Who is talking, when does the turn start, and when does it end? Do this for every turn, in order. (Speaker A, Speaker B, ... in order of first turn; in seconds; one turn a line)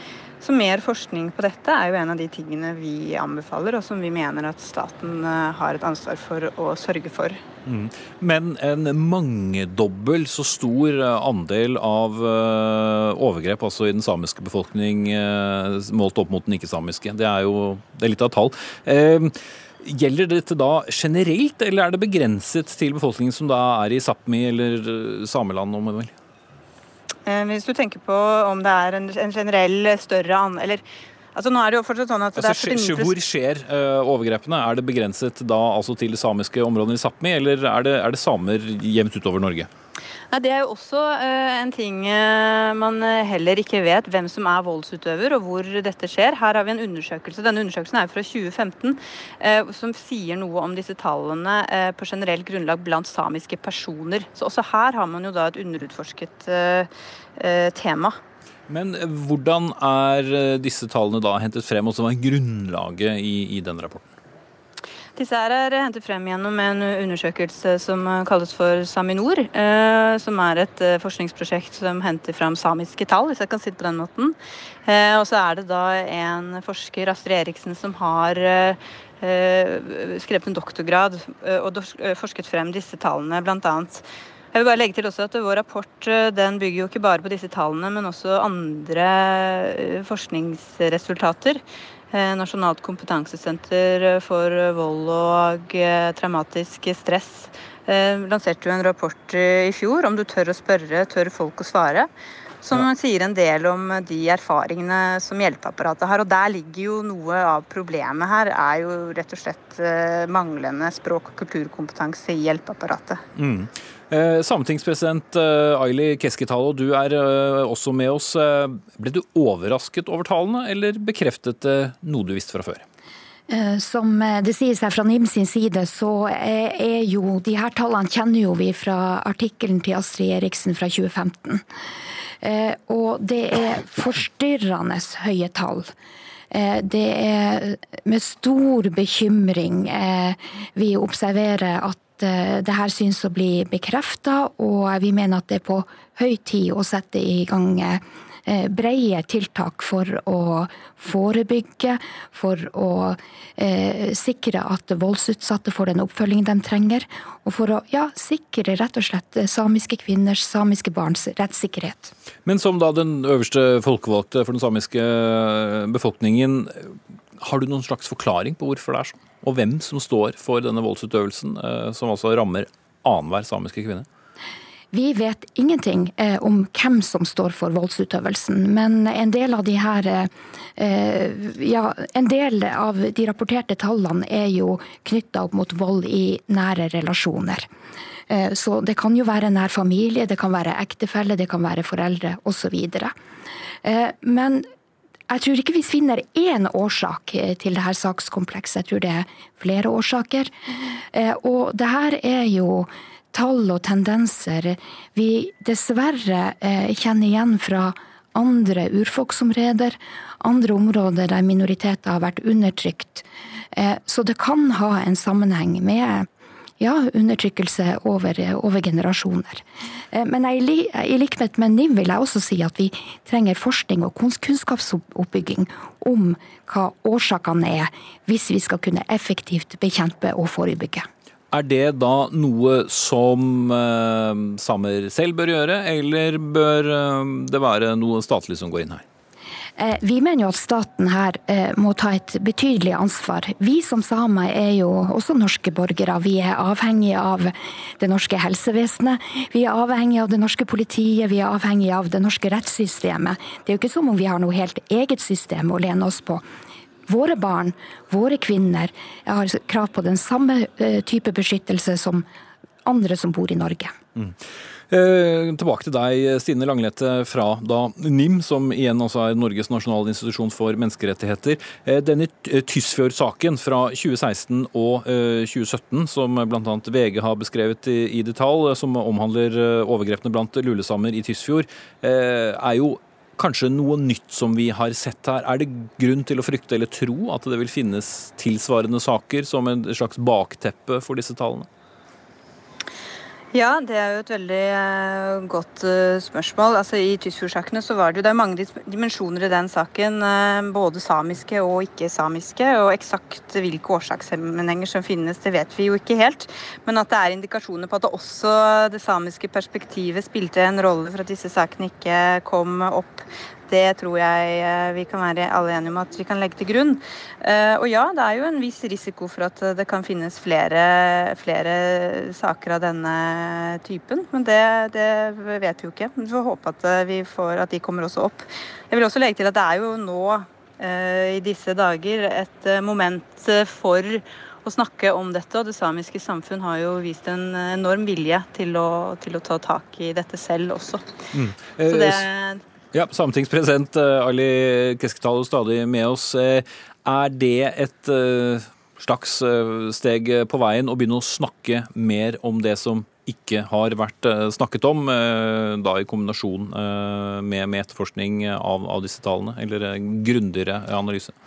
Speaker A: 0.4-7.4
Speaker B: 7.7-26.1
Speaker A: 27.2-30.8
Speaker A: 31.3-33.1
Speaker B: 32.3-39.7
Speaker A: 40.3-58.2
Speaker B: 58.7-64.1
Speaker A: 65.2-102.1
Speaker A: 102.6-113.2
Speaker B: 113.3-122.8
Speaker C: 123.5-131.6
Speaker C: 132.4-135.9
Speaker C: 136.5-162.1
Speaker B: 162.4-174.1
Speaker C: 174.9-187.7
Speaker C: 188.3-193.1
Speaker C: 193.8-194.7
Speaker C: 195.3-200.5
Speaker C: 201.1-216.3
Speaker C: 216.8-231.1
Speaker B: 231.5-239.0
Speaker C: 239.8-256.4
Speaker C: 257.1-262.2
Speaker C: 262.8-263.9
Speaker B: 264.9-291.7
Speaker A: 293.5-341.1
Speaker B: 341.3-342.2
Speaker A: 341.8-342.6
Speaker B: 342.9-361.3